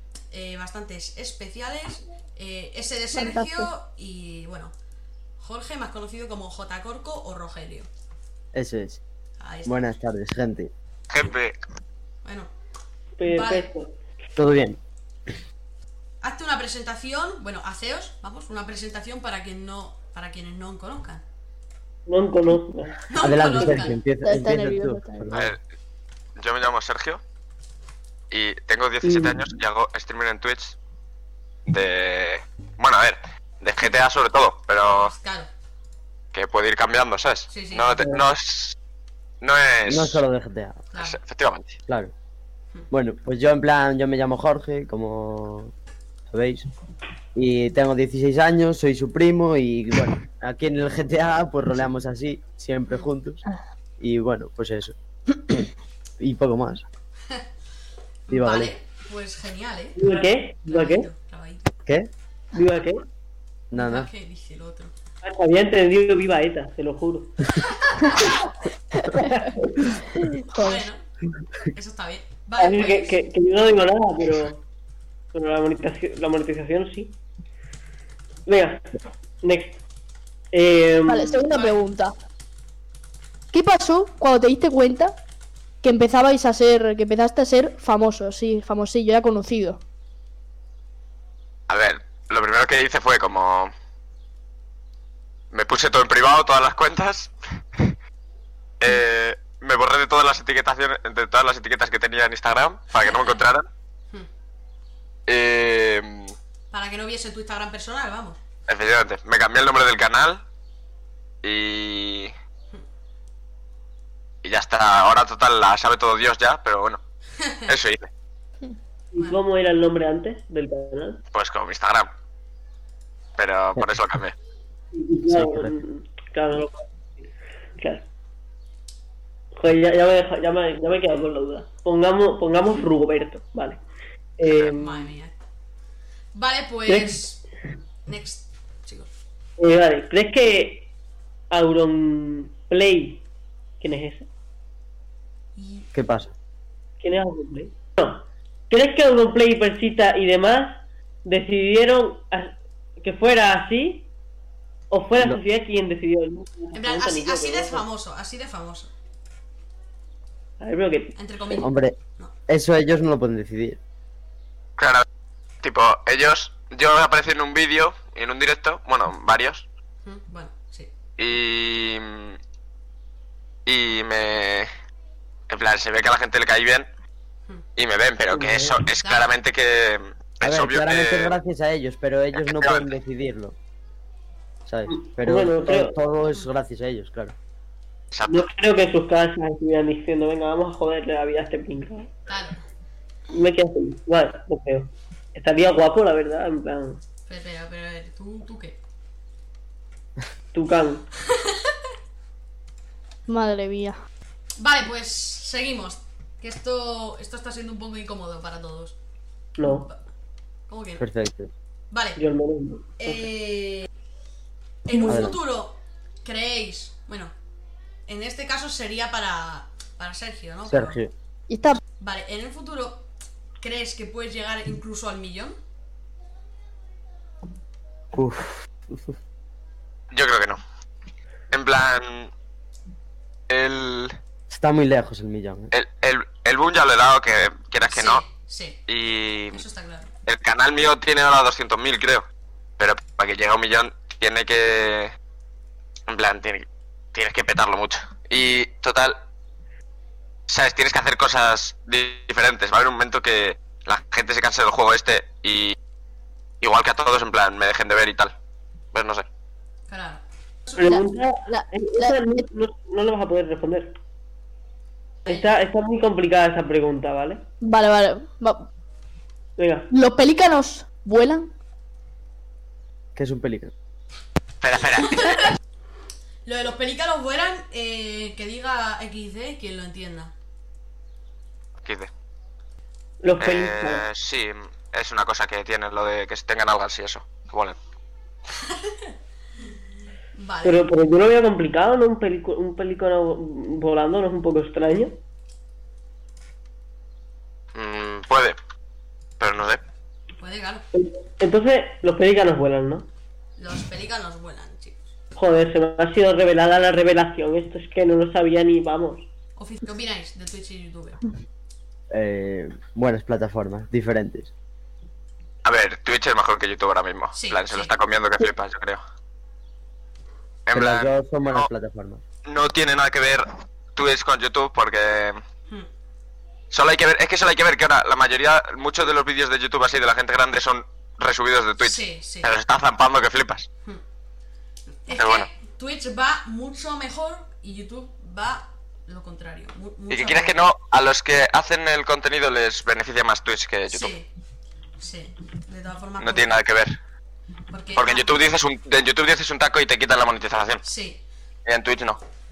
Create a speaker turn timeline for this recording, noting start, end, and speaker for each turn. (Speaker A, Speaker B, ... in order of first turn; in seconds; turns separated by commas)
Speaker A: 0.3-4.7, Speaker B: 3.1-3.7, Speaker A: 5.4-7.9, Speaker C: 8.5-9.0, Speaker A: 9.4-9.8, Speaker C: 9.6-10.7, Speaker D: 11.1-11.5, Speaker A: 12.2-12.5, Speaker E: 13.2-13.9, Speaker A: 13.2-13.7, Speaker C: 14.4-14.8, Speaker A: 16.2-21.2, Speaker E: 22.1-23.8, Speaker A: 23.1-24.0, Speaker C: 23.2-25.5, Speaker B: 24.2-25.3, Speaker D: 25.3-25.6, Speaker D: 26.4-27.2, Speaker D: 28.3-30.8, Speaker E: 29.0-29.5, Speaker D: 31.6-35.1, Speaker A: 34.9-35.5, Speaker D: 36.3-38.8, Speaker A: 37.5-38.0, Speaker D: 39.4-40.2, Speaker C: 39.9-40.8, Speaker A: 40.9-41.2, Speaker D: 41.0-41.8, Speaker C: 42.9-45.7, Speaker C: 46.3-46.6, Speaker C: 47.3-53.4, Speaker C: 54.0-54.9, Speaker C: 56.2-56.8, Speaker A: 58.3-61.7, Speaker C: 58.3-58.7, Speaker E: 60.0-61.1, Speaker E: 62.5-63.0, Speaker C: 63.7-64.1, Speaker A: 63.7-64.9, Speaker E: 65.2-67.4, Speaker A: 67.6-68.2, Speaker B: 69.0-69.3, Speaker E: 69.2-69.9, Speaker B: 70.2-70.8, Speaker A: 70.5-71.0, Speaker A: 71.7-73.2, Speaker E: 72.6-74.6, Speaker E: 75.3-77.2, Speaker E: 78.5-79.8, Speaker E: 80.5-81.4, Speaker B: 81.1-82.1, Speaker A: 81.5-81.9, Speaker B: 83.5-85.1, Speaker B: 85.8-89.8, Speaker D: 91.7-93.7, Speaker D: 95.5-97.9, Speaker D: 98.8-103.6, Speaker A: 102.9-103.4, Speaker D: 105.3-106.3, Speaker A: 106.7-108.4, Speaker D: 108.7-110.4, Speaker D: 111.4-112.3, Speaker D: 114.4-117.0, Speaker A: 117.4-117.7, Speaker D: 117.7-118.1, Speaker E: 119.1-121.2, Speaker D: 121.3-122.1, Speaker D: 123.4-124.3, Speaker E: 124.9-126.8, Speaker C: 125.3-125.7, Speaker E: 127.8-128.1, Speaker E: 129.5-133.8, Speaker E: 134.4-135.1, Speaker A: 134.6-135.3, Speaker A: 136.3-137.4, Speaker E: 136.9-137.2, Speaker A: 138.1-139.1, Speaker E: 139.6-140.9, Speaker E: 141.5-143.2, Speaker E: 143.8-144.3, Speaker A: 145.6-145.9, Speaker C: 145.9-146.3, Speaker E: 147.0-154.1, Speaker E: 154.9-157.8, Speaker A: 156.7-158.9, Speaker E: 160.6-161.2, Speaker A: 161.2-162.3, Speaker C: 161.6-161.9, Speaker C: 162.5-163.8, Speaker D: 164.8-165.0, Speaker D: 165.6-169.7, Speaker A: 170.0-170.9, Speaker D: 171.2-172.4, Speaker D: 173.7-174.7, Speaker D: 175.5-176.9, Speaker D: 177.8-181.4, Speaker E: 178.3-178.8, Speaker A: 179.0-179.3, Speaker C: 180.4-183.5, Speaker D: 182.4-182.8, Speaker C: 184.7-187.3, Speaker E: 184.9-185.9, Speaker D: 188.1-188.5, Speaker E: 188.2-192.1, Speaker A: 192.3-192.6, Speaker E: 193.3-197.0, Speaker A: 197.3-198.8, Speaker E: 200.5-201.0, Speaker A: 201.3-201.7, Speaker B: 203.3-203.9, Speaker A: 204.6-208.9, Speaker E: 209.6-209.9, Speaker A: 209.7-210.0, Speaker A: 210.7-211.1, Speaker C: 211.0-211.5, Speaker A: 211.9-212.2, Speaker E: 212.2-213.2, Speaker A: 213.0-213.9, Speaker A: 214.8-217.3, Speaker B: 214.9-215.3, Speaker C: 215.1-215.4, Speaker A: 218.1-221.0, Speaker C: 220.6-221.1, Speaker B: 221.5-221.8, Speaker A: 222.0-223.0, Speaker A: 223.6-225.6, Speaker C: 228.1-229.0, Speaker D: 230.1-230.6, Speaker D: 231.5-232.3, Speaker D: 233.5-234.2, Speaker C: 234.5-235.7, Speaker D: 235.7-238.2, Speaker A: 237.8-238.8, Speaker D: 238.9-239.6, Speaker A: 239.5-240.1, Speaker D: 240.2-242.2, Speaker D: 242.8-245.1, Speaker D: 246.1-249.2, Speaker D: 250.5-255.8, Speaker D: 256.6-258.3, Speaker D: 258.9-259.2, Speaker A: 259.9-261.0, Speaker E: 260.8-263.9, Speaker B: 260.9-262.4, Speaker E: 265.2-267.4, Speaker B: 267.6-268.7, Speaker E: 269.6-269.9, Speaker B: 269.9-271.5, Speaker C: 273.1-273.7, Speaker D: 274.6-275.2, Speaker A: 274.9-275.5, Speaker A: 276.4-280.3, Speaker D: 281.8-282.1, Speaker E: 283.2-284.0, Speaker D: 283.4-287.8, Speaker A: 288.7-289.1, Speaker A: 290.3-290.8, Speaker E: 290.6-295.2, Speaker D: 297.7-298.6, Speaker D: 299.4-299.8, Speaker A: 300.4-300.8, Speaker E: 300.9-303.1, Speaker A: 303.6-305.1, Speaker E: 305.4-309.3, Speaker A: 309.6-311.2, Speaker C: 312.1-314.5, Speaker D: 315.6-319.0, Speaker A: 317.3-318.0, Speaker D: 320.6-321.7, Speaker C: 320.7-322.2, Speaker D: 322.4-325.4, Speaker D: 326.7-333.7, Speaker A: 331.8-332.5, Speaker A: 335.0-340.5, Speaker D: 335.1-335.5, Speaker D: 340.1-344.1, Speaker A: 343.9-344.3, Speaker A: 345.0-346.6, Speaker D: 346.2-346.9, Speaker A: 347.7-348.3, Speaker D: 347.9-350.8, Speaker A: 350.8-351.2, Speaker D: 351.6-352.2